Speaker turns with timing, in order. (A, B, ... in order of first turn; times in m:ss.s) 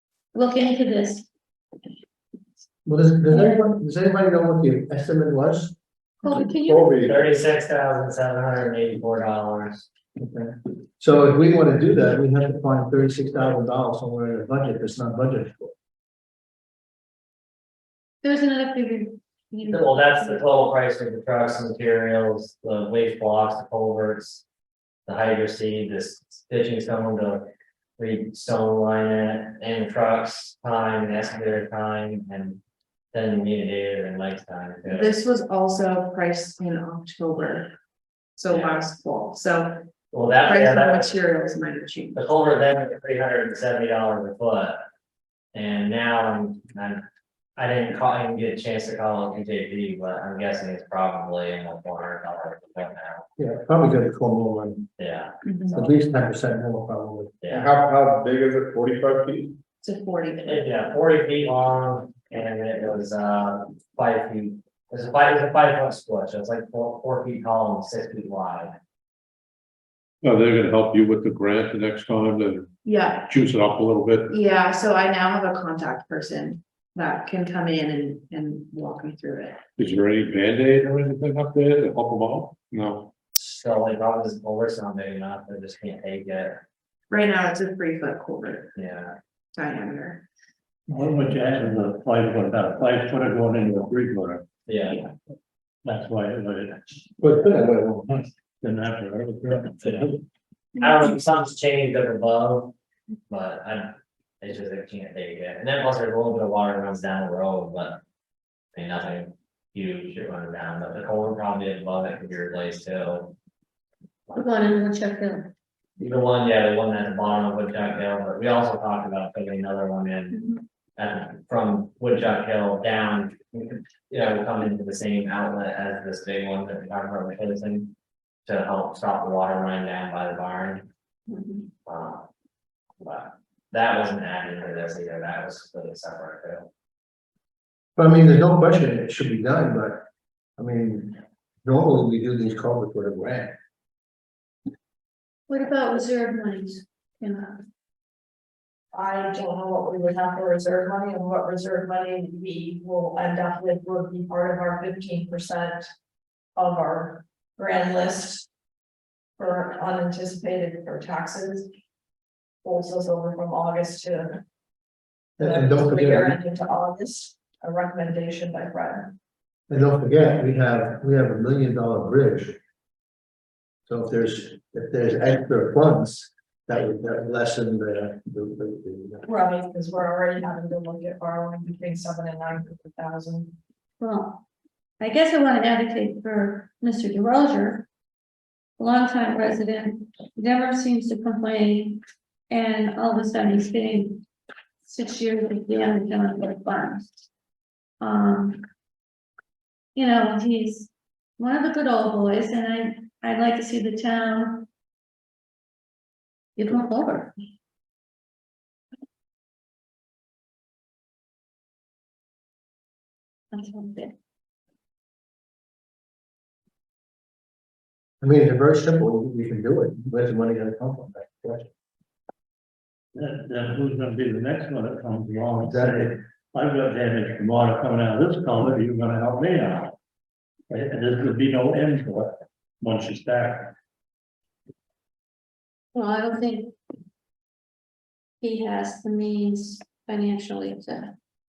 0:00.3-0:01.3 A
0:02.8-0:05.7 B
0:03.3-0:03.7 A
0:06.2-0:07.0 A
0:06.3-0:07.2 C
0:06.9-0:09.9 D
0:10.2-0:15.7 B
0:18.2-0:20.4 A
0:19.7-0:24.4 D
0:25.1-0:27.5 D
0:28.0-0:32.6 D
0:33.1-0:35.2 D
0:34.9-0:37.7 E
0:38.4-0:39.9 E
0:38.5-0:38.9 D
0:40.1-0:41.2 D
0:40.4-0:42.2 E
0:42.1-0:44.8 D
0:45.5-0:47.0 D
0:47.6-0:53.2 D
0:53.4-0:54.9 B
0:55.0-0:56.0 D
0:55.5-0:55.7 E
0:55.7-0:57.4 B
0:57.4-0:57.7 D
0:57.5-0:59.6 C
0:59.8-1:00.7 E
1:00.4-1:08.7 D
1:10.2-1:12.7 F
1:12.8-1:13.2 E
1:13.3-1:14.3 F
1:14.3-1:19.6 E
1:19.8-1:23.1 F
1:23.4-1:26.6 D
1:27.1-1:28.7 E
1:28.8-1:29.1 D
1:29.5-1:30.2 E
1:30.9-1:34.4 G
1:34.7-1:35.0 D
1:35.8-1:36.9 G
1:37.2-1:38.3 B
1:38.6-1:40.2 G
1:39.8-1:40.1 D
1:40.8-1:42.7 D
1:43.3-1:48.0 D
1:48.7-1:53.3 D
1:54.3-1:54.6 D
1:54.4-1:55.5 A
1:56.0-2:00.4 D
2:01.0-2:07.9 D
2:08.4-2:10.8 D
2:11.8-2:12.3 D
2:13.0-2:16.7 D
2:18.0-2:20.0 B
2:20.6-2:23.5 B
2:25.5-2:27.6 A
2:28.9-2:35.9 H
2:36.6-2:38.5 H
2:39.4-2:41.7 H
2:42.6-2:44.4 H
2:45.4-2:46.3 B
2:45.4-2:49.1 H
2:49.7-2:52.6 B
2:53.9-2:59.2 B
2:59.3-3:03.6 H
3:04.0-3:04.4 A
3:05.0-3:07.9 A
3:08.8-3:12.0 A
3:12.5-3:14.2 A
3:14.8-3:17.1 A
3:18.0-3:18.6 A
3:19.9-3:24.7 A
3:26.6-3:27.3 A
3:33.5-3:34.1 A
3:38.2-3:41.7 B
3:43.1-3:49.9 G
3:45.7-3:46.2 B
3:50.7-3:53.8 G
3:55.9-3:56.7 A
3:58.4-4:01.1 A